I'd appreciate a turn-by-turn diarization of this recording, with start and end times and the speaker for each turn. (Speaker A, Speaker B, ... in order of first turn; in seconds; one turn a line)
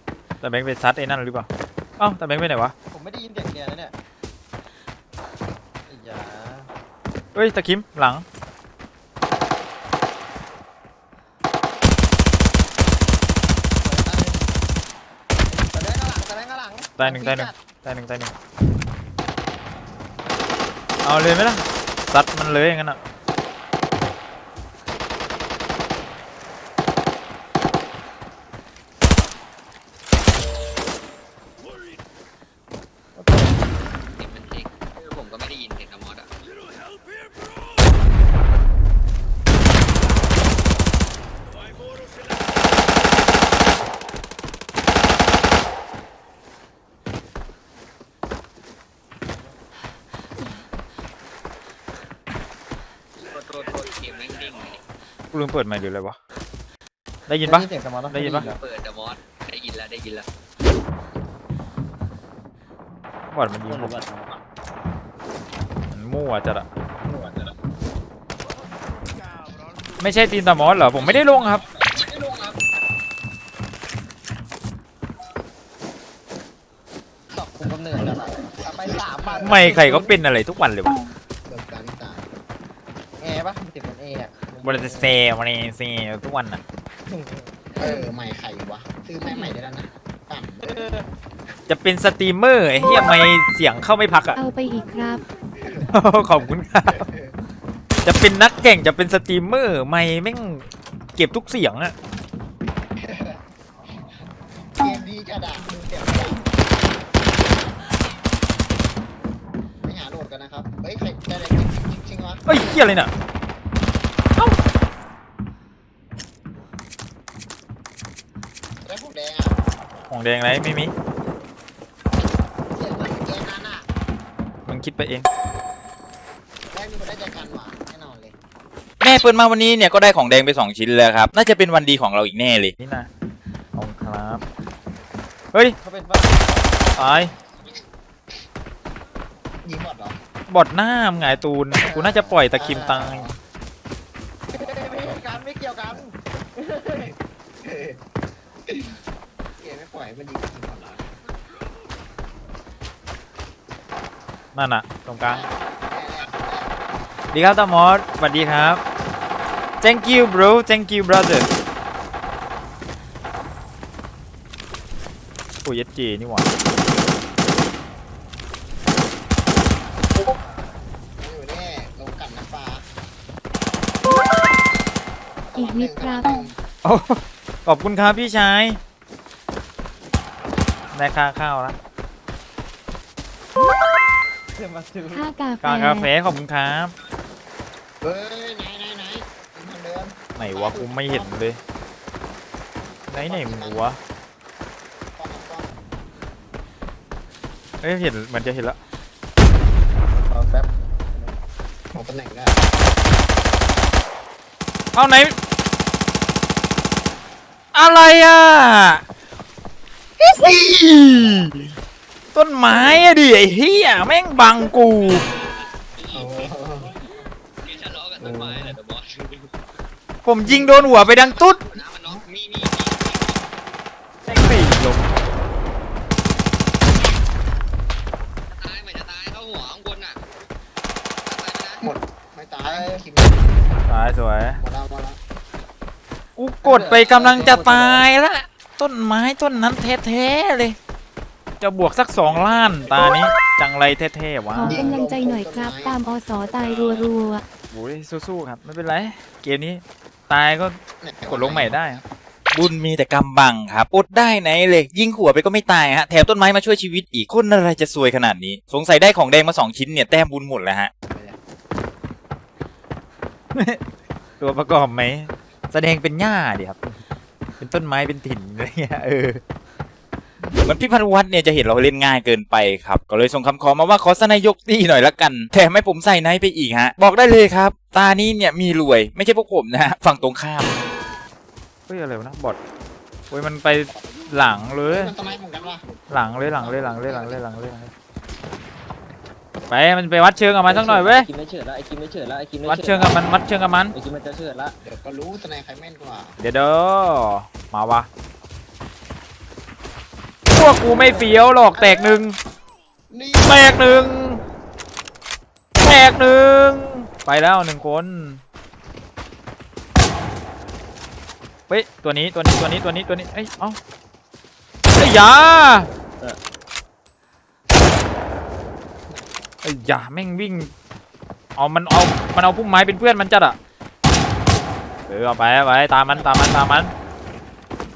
Speaker A: 0.4-1.5
Speaker A: 2.0-2.7
Speaker B: 2.9-3.9
Speaker B: 5.9-6.7
Speaker A: 7.3-8.2
Speaker B: 13.8-14.4
Speaker B: 15.5-17.5
Speaker A: 17.0-18.3
Speaker A: 21.0-23.0
Speaker B: 33.2-33.6
Speaker C: 34.2-36.3
Speaker C: 53.2-54.8
Speaker A: 55.3-56.2
Speaker A: 57.3-58.5
Speaker B: 57.4-58.6
Speaker C: 58.3-60.2
Speaker A: 63.3-64.0
Speaker B: 63.7-64.4
Speaker A: 65.9-66.7
Speaker B: 67.0-67.5
Speaker A: 70.0-71.6
Speaker B: 70.9-72.6
Speaker B: 77.3-80.2
Speaker D: 78.8-79.7
Speaker A: 79.4-81.0
Speaker D: 81.5-82.3
Speaker B: 83.2-85.2
Speaker A: 84.6-86.6
Speaker B: 87.1-88.1
Speaker D: 87.8-91.0
Speaker B: 90.6-91.1
Speaker A: 91.7-94.4
Speaker E: 94.4-95.2
Speaker D: 95.6-97.3
Speaker A: 95.9-97.0
Speaker A: 98.0-102.0
Speaker D: 98.5-98.7
Speaker D: 103.0-103.4
Speaker D: 104.8-106.5
Speaker D: 109.8-112.5
Speaker A: 112.5-113.1
Speaker D: 118.8-119.6
Speaker A: 120.1-120.9
Speaker D: 122.8-123.8
Speaker B: 122.8-123.1
Speaker A: 124.7-125.3
Speaker D: 126.7-128.4
Speaker F: 129.0-132.8
Speaker A: 132.8-133.1
Speaker A: 133.8-134.4
Speaker B: 135.8-136.9
Speaker A: 137.0-137.3
Speaker D: 139.6-140.2
Speaker A: 140.5-143.3
Speaker B: 141.8-142.9
Speaker D: 142.5-143.4
Speaker B: 144.5-147.1
Speaker D: 144.6-145.2
Speaker D: 147.0-148.0
Speaker D: 148.7-149.0
Speaker D: 149.6-151.1
Speaker A: 154.6-155.4
Speaker D: 155.2-156.8
Speaker A: 157.3-158.8
Speaker A: 159.8-161.5
Speaker A: 165.7-166.5
Speaker D: 171.2-172.8
Speaker D: 175.5-176.6
Speaker E: 175.6-176.5
Speaker A: 176.8-178.8
Speaker A: 180.9-181.8
Speaker B: 184.6-185.3
Speaker E: 185.1-186.1
Speaker A: 185.6-186.9
Speaker D: 188.0-191.3
Speaker A: 190.4-191.6
Speaker A: 193.1-194.0
Speaker D: 193.1-193.8
Speaker D: 195.2-195.7
Speaker A: 197.8-198.8
Speaker B: 200.1-201.4
Speaker D: 201.9-202.7
Speaker A: 204.9-205.3
Speaker A: 207.8-209.0
Speaker A: 210.2-211.5
Speaker D: 210.4-211.5
Speaker A: 212.3-215.2
Speaker C: 216.0-216.5
Speaker D: 216.1-216.9
Speaker C: 217.6-219.5
Speaker D: 218.2-218.8
Speaker A: 220.2-221.6
Speaker D: 220.5-220.7
Speaker C: 220.8-223.4
Speaker A: 224.3-225.2
Speaker C: 228.6-230.2
Speaker C: 231.3-231.9
Speaker D: 231.8-233.6
Speaker B: 232.6-233.0
Speaker A: 233.9-234.6
Speaker D: 234.6-235.2
Speaker A: 236.4-240.8
Speaker B: 236.6-238.1
Speaker A: 241.6-244.8
Speaker E: 244.5-247.4
Speaker D: 244.6-246.0
Speaker A: 247.7-252.0
Speaker D: 251.0-251.9
Speaker F: 252.6-260.9
Speaker A: 252.6-252.9
Speaker D: 261.1-261.4
Speaker A: 263.5-263.8
Speaker A: 264.4-266.8
Speaker A: 267.6-269.4
Speaker F: 270.6-280.7
Speaker A: 277.0-277.6
Speaker A: 281.9-282.6
Speaker A: 283.3-285.1
Speaker D: 283.9-285.8
Speaker A: 286.1-287.9
Speaker D: 286.4-287.4
Speaker A: 289.7-291.3
Speaker B: 290.7-293.2
Speaker A: 292.6-293.9
Speaker B: 293.9-294.8
Speaker D: 294.8-296.4
Speaker A: 296.4-298.1
Speaker A: 300.5-302.4
Speaker D: 301.7-302.2
Speaker D: 303.1-304.2
Speaker A: 303.4-304.4
Speaker A: 305.8-308.4
Speaker A: 311.7-313.8
Speaker A: 315.0-315.9
Speaker D: 319.1-319.5
Speaker A: 319.6-320.7
Speaker A: 321.6-323.6
Speaker A: 325.1-326.9
Speaker D: 326.1-326.6